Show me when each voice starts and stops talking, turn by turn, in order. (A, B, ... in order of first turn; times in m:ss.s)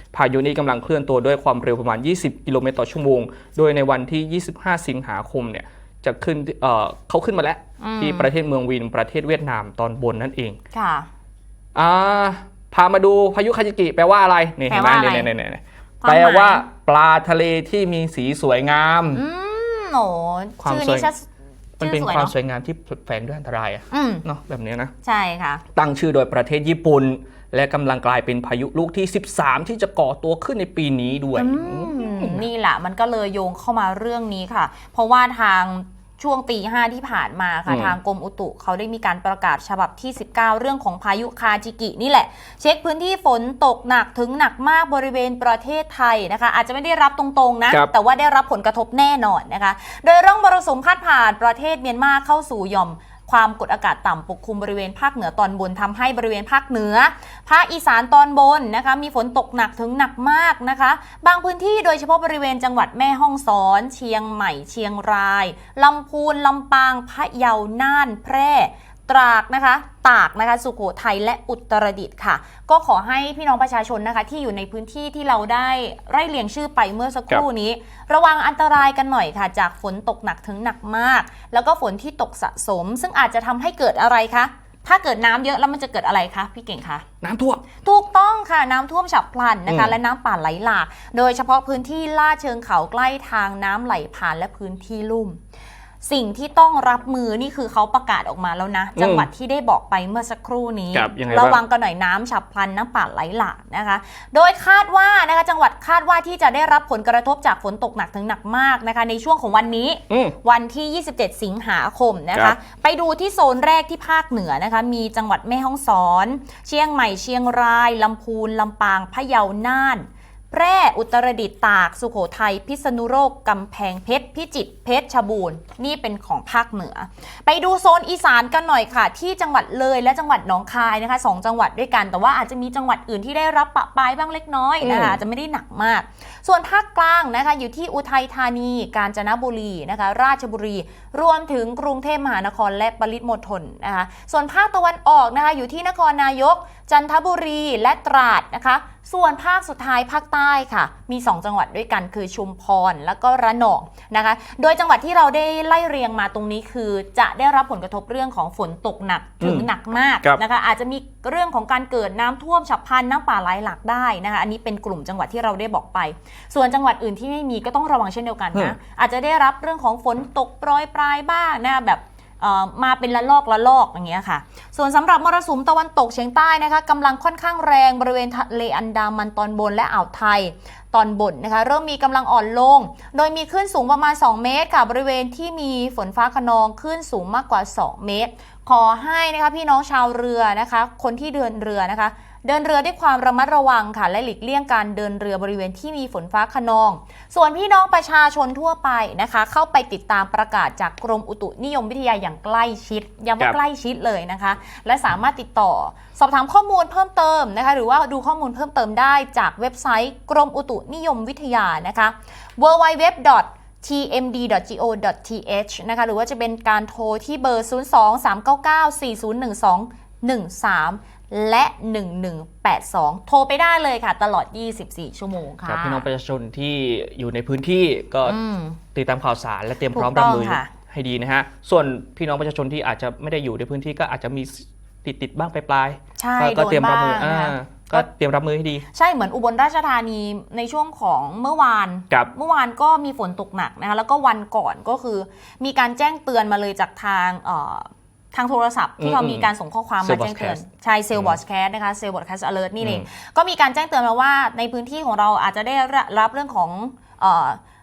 0:00.1-0:10.6 A
0:07.8-0:08.3 B
0:10.7-0:11.1 B
0:11.7-0:19.2 A
0:14.7-0:15.3 B
0:16.0-0:16.6 B
0:19.1-0:21.3 B
0:20.6-0:21.1 A
0:21.8-0:22.3 B
0:21.8-0:24.9 A
0:23.9-0:24.2 B
0:25.0-0:25.6 B
0:25.7-0:32.4 A
0:31.3-1:27.0 B
0:37.7-0:38.0 A
1:27.2-1:27.6 A
1:27.8-1:35.4 B
1:29.7-1:29.9 A
1:36.0-3:46.0 B
1:39.0-1:39.3 A
1:40.9-1:41.6 A
1:50.1-1:50.4 A
2:14.8-2:15.2 A
2:39.4-2:39.7 A
3:45.6-3:48.4 A
3:48.2-3:48.8 B
3:48.9-3:58.8 A
3:49.9-3:50.7 B
3:56.2-3:58.0 B
3:58.9-4:17.6 B
4:09.0-4:09.5 A
4:10.0-4:10.6 A